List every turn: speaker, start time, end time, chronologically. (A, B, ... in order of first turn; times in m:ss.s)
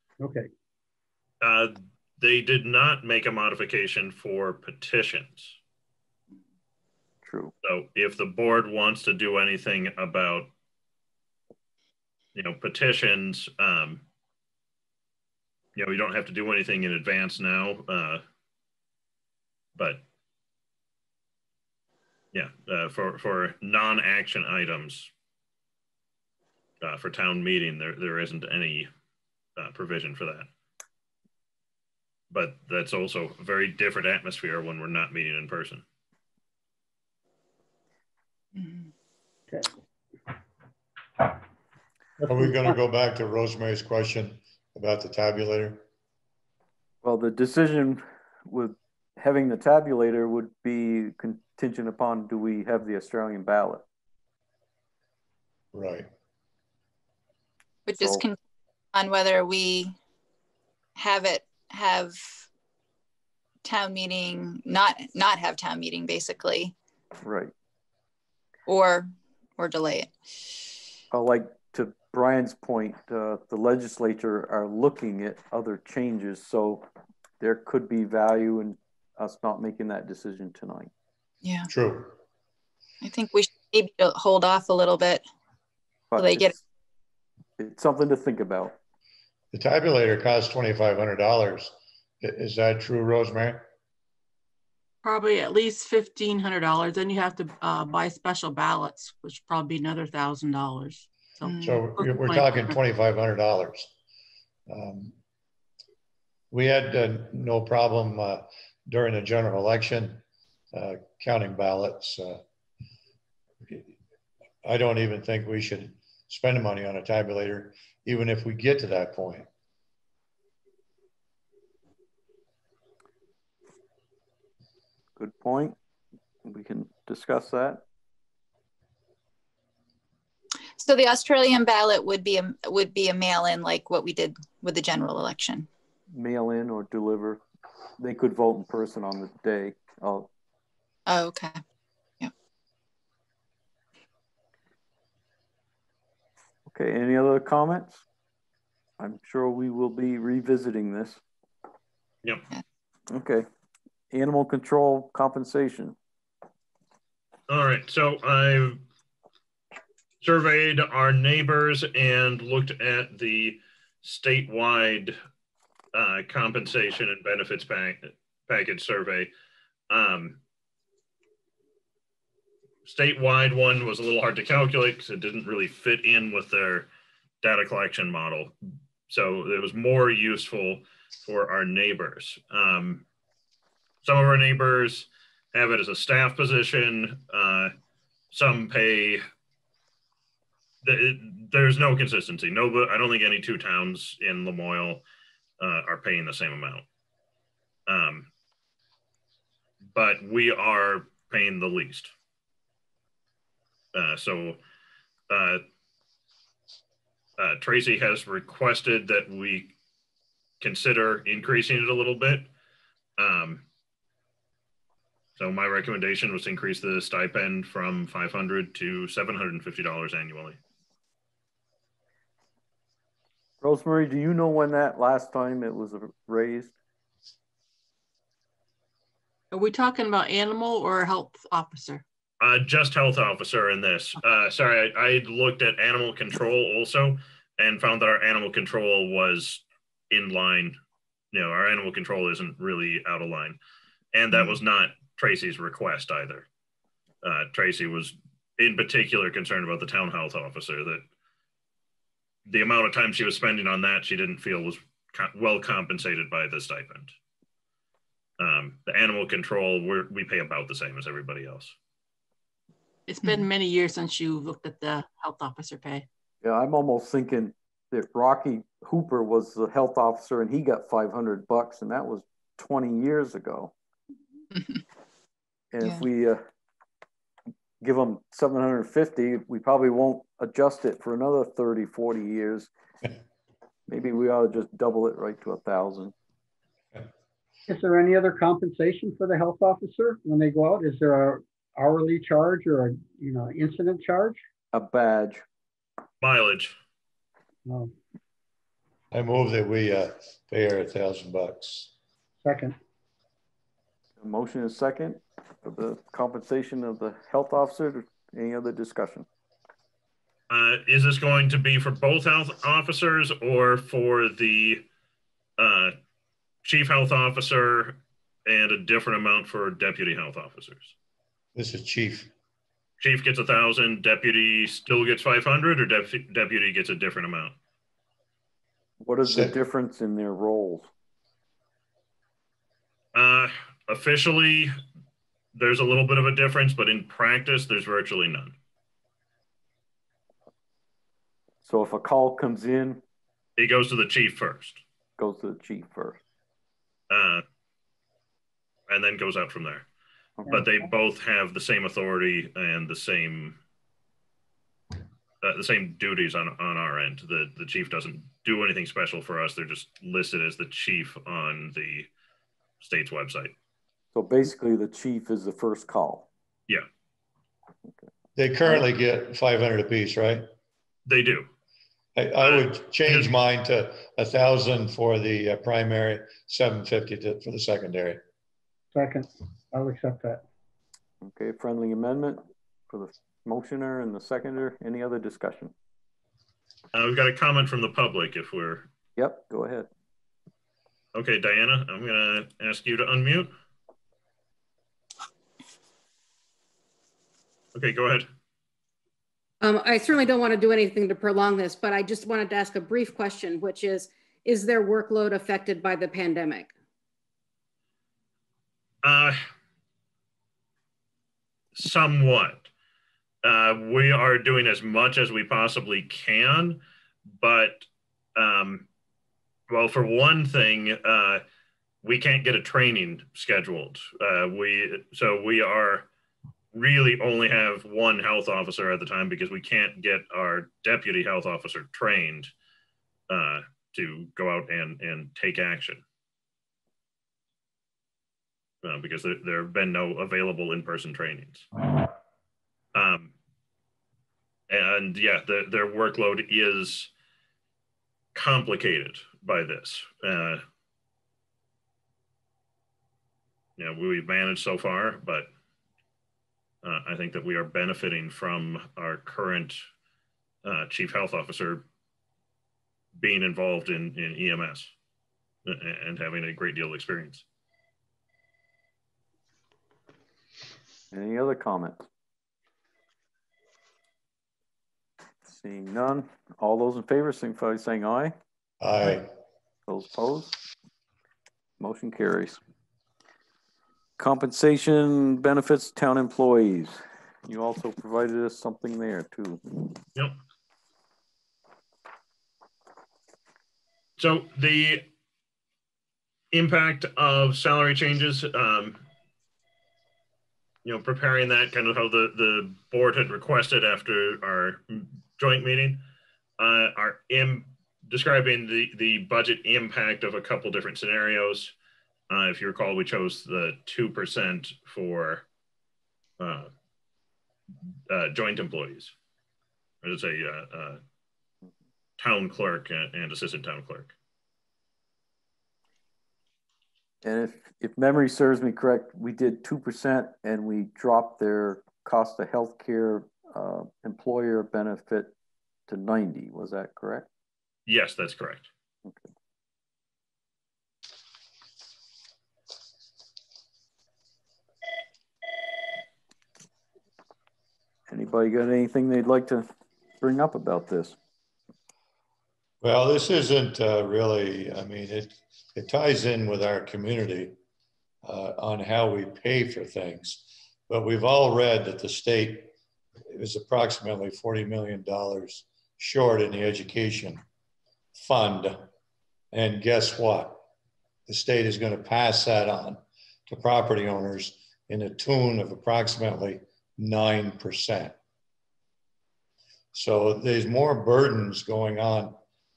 0:00.2-0:00.5 A
0:01.4-0:05.6 B
0:07.2-0:07.5 C
0:07.6-0:10.5 B
0:12.4-0:14.0 B
0:15.8-0:18.2 B
0:19.8-0:20.0 B
0:22.3-0:25.1 B
0:26.8-0:28.9 B
0:29.6-0:30.5 B
0:32.3-0:35.8 B
0:38.6-0:38.8 D
0:42.3-0:45.8 E
0:47.0-0:53.8 C
0:55.7-0:56.1 E
0:57.9-0:58.4 D
0:58.9-1:00.0 D
1:01.0-1:02.5 D
1:03.6-1:06.7 D
1:07.2-1:07.5 C
1:08.7-1:10.2 D
1:11.1-1:16.8 C
1:17.4-1:20.9 C
1:21.4-1:21.7 D
1:21.7-1:22.2 E
1:23.0-1:25.2 D
1:26.1-1:26.6 C
1:26.2-1:26.5 D
1:27.6-1:28.8 C
1:29.5-1:33.6 E
1:35.0-1:42.8 F
1:41.4-1:41.8 D
1:41.6-1:43.9 E
1:44.7-1:45.1 E
1:46.5-1:52.4 E
1:54.6-1:59.5 E
2:05.2-2:05.8 C
2:06.4-2:07.8 C
2:10.8-2:15.7 D
2:16.1-2:17.4 C
2:18.0-2:20.3 C
2:21.1-2:21.6 D
2:26.7-2:28.0 C
2:29.0-2:31.2 C
2:33.1-2:33.5 C
2:34.1-2:36.0 C
2:37.5-2:38.8 B
2:40.2-2:45.2 B
2:45.9-2:49.3 B
2:49.9-2:50.4 B
2:52.9-2:56.9 B
2:57.4-2:58.5 B
2:59.1-3:03.0 B
3:04.0-3:07.7 B
3:08.3-3:09.2 B
3:10.8-3:15.0 B
3:15.6-3:16.8 B
3:17.9-3:18.3 B
3:19.9-3:22.1 B
3:23.9-3:24.6 B
3:25.3-3:25.6 B
3:27.4-3:29.7 B
3:30.6-3:32.5 B
3:33.2-3:33.6 B
3:35.4-3:40.6 B
3:43.6-3:46.7 C
3:49.5-3:52.0 F
3:52.4-4:00.8 B
4:01.3-4:03.6 B
4:04.1-4:06.5 B
4:07.2-4:11.0 B
4:12.5-4:17.1 B
4:18.4-4:21.8 B
4:23.1-4:26.1 F
4:26.4-4:33.7 C
4:34.6-4:34.8 D
4:35.7-4:36.4 C
4:37.8-4:42.7 C
4:43.9-4:46.1 C
4:47.7-4:54.4 A
4:54.7-4:55.4 C
4:56.2-4:56.8 B
4:57.7-4:57.9 A
4:59.1-5:01.9 E
5:02.4-5:02.8 A
5:04.2-5:09.3 C
5:10.5-5:14.8 B
5:15.6-5:16.0 B
5:16.6-5:20.9 B
5:21.6-5:22.3 E
5:23.0-5:27.6 B
5:29.0-5:30.9 C
5:29.3-5:29.5 E
5:33.1-5:34.7 B
5:35.5-5:38.6 B
5:41.6-5:43.0 C
5:43.6-5:44.8 B
5:45.2-5:46.2 C
5:47.1-5:47.4 B
5:48.9-5:49.9 B
5:50.5-5:53.6 B
5:55.4-6:02.1 B
6:02.8-6:03.6 B
6:04.1-6:06.3 C
6:08.4-6:10.5 E
6:11.1-6:11.5 B
6:12.2-6:18.2 E
6:12.4-6:13.3 B
6:18.9-6:20.4 A
6:21.2-6:25.7 C
6:26.9-6:28.9 B
6:29.2-6:29.9 C
6:31.1-6:33.5 B
6:37.8-6:38.3 B
6:39.6-6:46.7 G
6:49.0-6:49.4 B
6:51.8-6:52.7 B
6:53.4-6:56.8 B
6:57.4-6:58.9 B
6:59.7-7:01.4 B
7:02.0-7:06.1 B
7:06.7-7:12.5 B
7:13.3-7:16.0 B
7:18.8-7:21.7 B
7:22.9-7:23.3 B
7:24.7-7:27.1 B
7:28.4-7:30.6 B
7:33.8-7:35.5 B
7:36.8-7:39.8 B
7:40.6-7:41.8 B
7:43.2-7:44.9 B
7:45.6-7:47.4 B
7:51.1-7:52.1 C
7:55.4-7:58.4 C
7:58.8-7:59.3 E
7:59.9-8:00.6 C
8:01.8-8:02.6 C
8:04.2-8:09.9 C
8:14.2-8:15.0 B
8:16.5-8:19.0 B
8:20.8-8:26.0 B
8:26.6-8:31.7 B
8:32.3-8:35.4 B
8:36.4-8:36.7 B
8:38.1-8:39.1 B
8:40.0-8:41.0 B
8:42.2-8:44.1 B
8:47.2-8:55.3 C
8:55.9-8:57.3 C
8:57.9-8:58.7 B
9:08.1-9:09.7 C
9:10.2-9:11.2 C
9:12.8-9:17.6 E
9:18.2-9:22.7 E
9:23.3-9:27.4 E
9:28.2-9:28.8 E
9:29.5-9:30.6 E
9:31.3-9:38.2 E
9:39.9-9:42.4 E